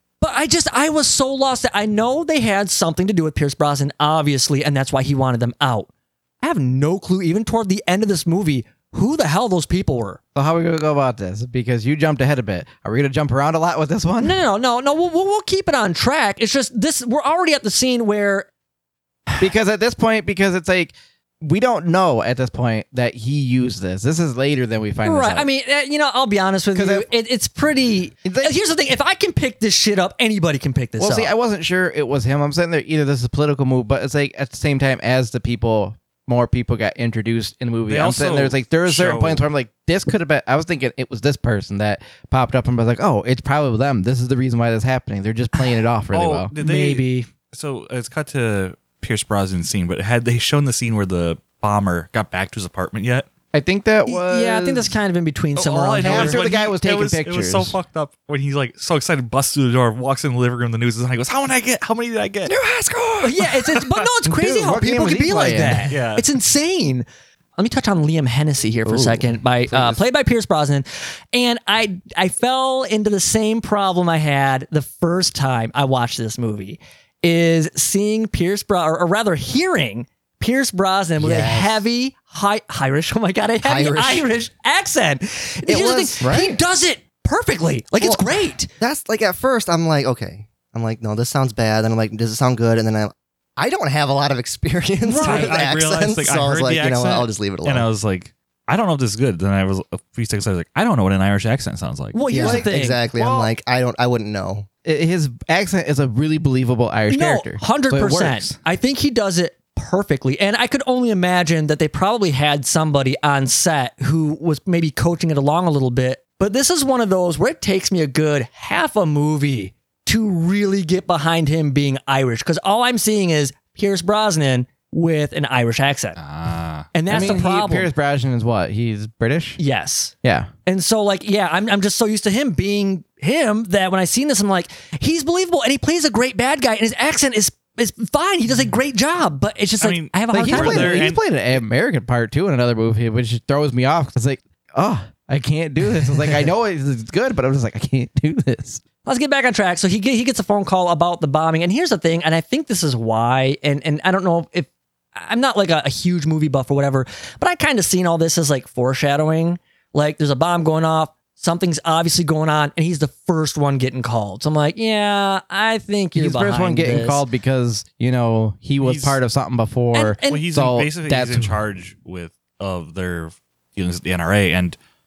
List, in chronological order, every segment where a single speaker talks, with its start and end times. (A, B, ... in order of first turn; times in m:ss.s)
0:00.2-0:05.9 A
0:06.4-0:10.2 A
0:10.3-0:14.4 B
0:14.2-0:18.5 A
0:19.4-0:25.5 B
0:25.0-0:31.3 A
0:26.7-0:27.1 B
0:28.2-0:28.5 B
0:31.0-0:47.3 B
0:37.9-0:39.4 C
0:46.1-0:53.3 C
0:53.5-0:54.9 B
0:54.0-0:56.4 A
0:55.6-1:02.6 C
0:56.0-0:57.8 B
1:02.9-1:03.2 D
1:03.2-1:07.0 A
1:04.2-1:05.9 B
1:05.9-1:06.2 C
1:07.6-1:28.7 A
1:08.9-1:09.2 D
1:09.7-1:10.0 B
1:21.2-1:21.8 D
1:23.6-1:24.3 D
1:25.7-1:26.4 D
1:26.2-1:26.6 B
1:28.0-1:28.2 D
1:28.8-1:37.9 D
1:35.0-1:35.6 A
1:35.2-1:42.2 C
1:42.1-1:43.0 A
1:42.3-1:44.7 D
1:42.4-1:43.5 B
1:44.8-1:48.6 B
1:47.1-2:06.2 A
2:06.2-2:06.9 C
2:06.9-2:07.9 A
2:07.1-2:09.6 B
2:09.6-2:10.1 A
2:10.2-2:10.5 B
2:10.6-2:21.1 A
2:19.8-2:21.2 C
2:20.3-2:28.8 B
2:29.0-2:47.2 A
2:46.1-2:51.6 B
2:48.8-2:49.2 C
2:49.9-2:50.4 A
2:50.3-2:54.8 C